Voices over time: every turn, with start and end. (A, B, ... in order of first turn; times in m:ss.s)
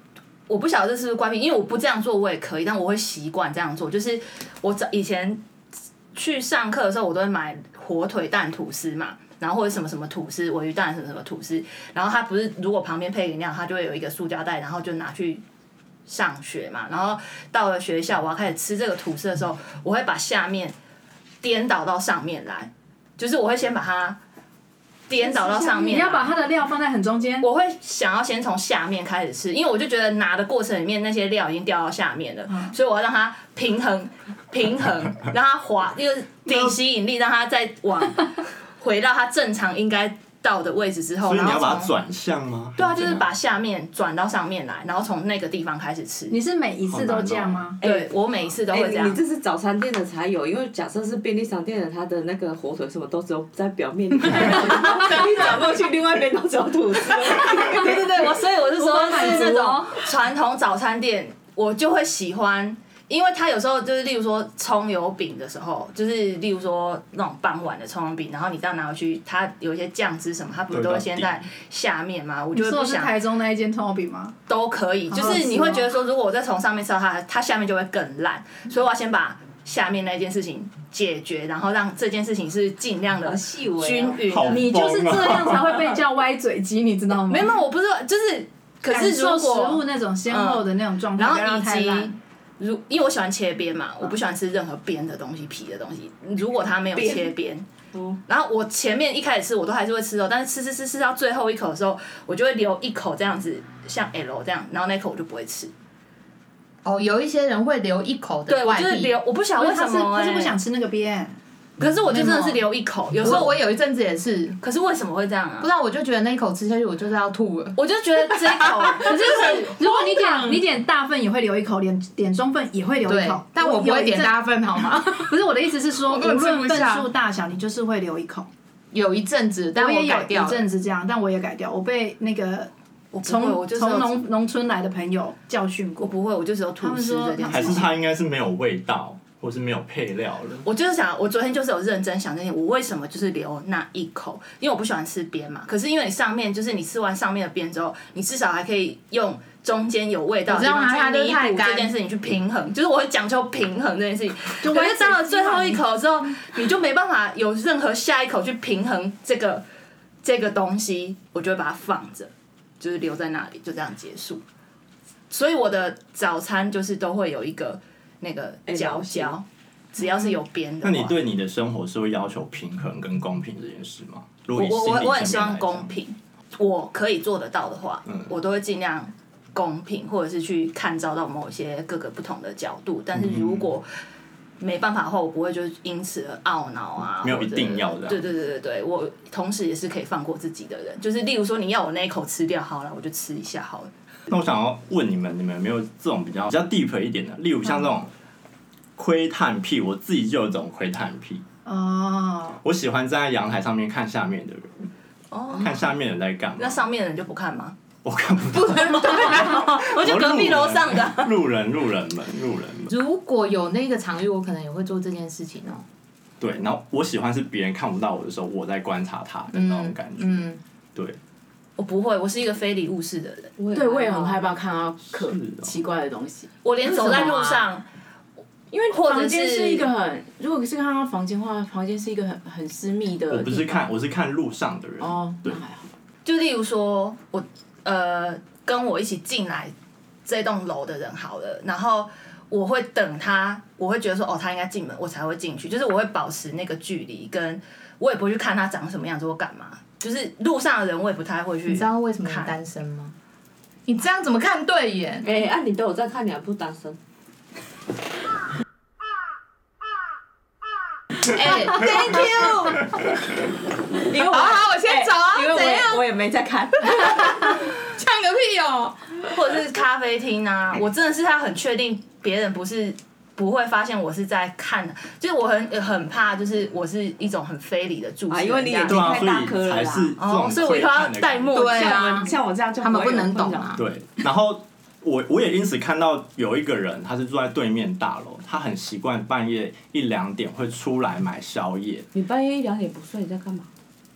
0:00.5-0:05.4 A
0:06.1-0:15.4 A
0:16.1-0:20.8 A
0:21.4-0:24.2 A
0:25.1-0:26.3 A
0:25.2-0:27.5 B
0:27.4-0:41.9 A
0:36.5-0:36.7 C
0:41.2-0:43.2 C
0:42.8-0:46.4 A
0:46.3-0:47.8 B
0:46.9-0:47.6 C
0:47.8-0:48.1 D
0:47.8-0:49.2 A
0:48.7-0:59.7 D
0:57.2-1:13.1 A
0:58.8-1:00.0 B
1:10.7-1:11.3 C
1:12.5-1:14.4 B
1:14.5-1:24.7 A
1:15.1-1:15.8 B
1:23.2-1:24.2 D
1:24.3-1:25.8 C
1:24.5-1:27.6 B
1:27.3-1:37.7 A
1:28.9-1:32.1 B
1:36.9-1:37.3 D
1:37.9-1:38.2 D
1:38.2-1:45.7 A
1:46.8-1:49.1 E
1:48.5-1:50.6 A
1:49.5-1:51.4 B
1:51.8-1:53.6 A
1:52.1-1:54.6 E
1:54.6-1:55.7 A
1:55.6-1:57.8 E
1:57.8-2:00.5 A
1:58.4-1:59.1 E
1:59.0-2:08.5 B
2:03.1-2:05.3 E
2:06.1-2:07.0 E
2:08.9-2:10.7 E
2:09.8-2:12.7 B
2:13.1-2:14.2 A
2:13.2-2:16.2 B
2:16.0-2:17.9 A
2:16.8-2:17.9 B
2:17.5-2:20.7 C
2:20.6-2:39.6 A
2:30.5-2:31.9 E
2:34.6-2:35.8 B
2:40.2-2:44.4 A
2:45.3-2:51.2 A
2:48.7-2:49.4 D
2:50.8-2:55.9 C
2:54.5-3:03.8 A
3:03.1-3:03.7 C
3:04.6-3:13.9 A
3:07.2-3:08.2 C
3:14.3-3:18.1 C
3:19.0-3:21.4 C
3:21.6-3:22.6 B
3:22.6-3:24.9 C
3:25.3-3:25.9 A
3:25.6-3:26.8 C
3:26.6-3:27.7 A
3:28.0-3:32.9 C
3:28.5-3:31.3 A
3:32.9-3:35.8 E
3:36.4-3:41.2 C
3:39.5-3:40.6 E
3:41.8-3:43.6 A
3:43.6-3:44.5 D
3:43.7-3:46.5 F
3:45.2-3:45.7 C
3:46.6-3:47.8 A
3:46.8-3:47.7 E
3:48.7-3:53.8 F
3:48.9-3:49.9 A
3:53.3-3:55.6 C
3:55.0-3:55.9 F
3:56.2-3:59.7 A
4:00.2-4:12.5 A
4:11.7-4:13.1 E
4:13.8-4:15.3 E
4:15.2-4:17.0 D
4:21.3-4:22.7 E
4:21.4-4:22.7 A
4:22.1-4:22.7 D
4:24.0-4:27.7 D
4:24.3-4:25.9 E
4:24.5-4:25.8 A
4:28.0-4:29.0 E
4:29.2-4:39.5 A
4:38.3-4:40.2 D
4:38.9-4:41.7 C
4:40.2-4:42.2 A
4:41.5-4:43.8 E
4:41.6-4:43.8 D
4:43.8-4:52.1 C
4:52.1-4:53.7 D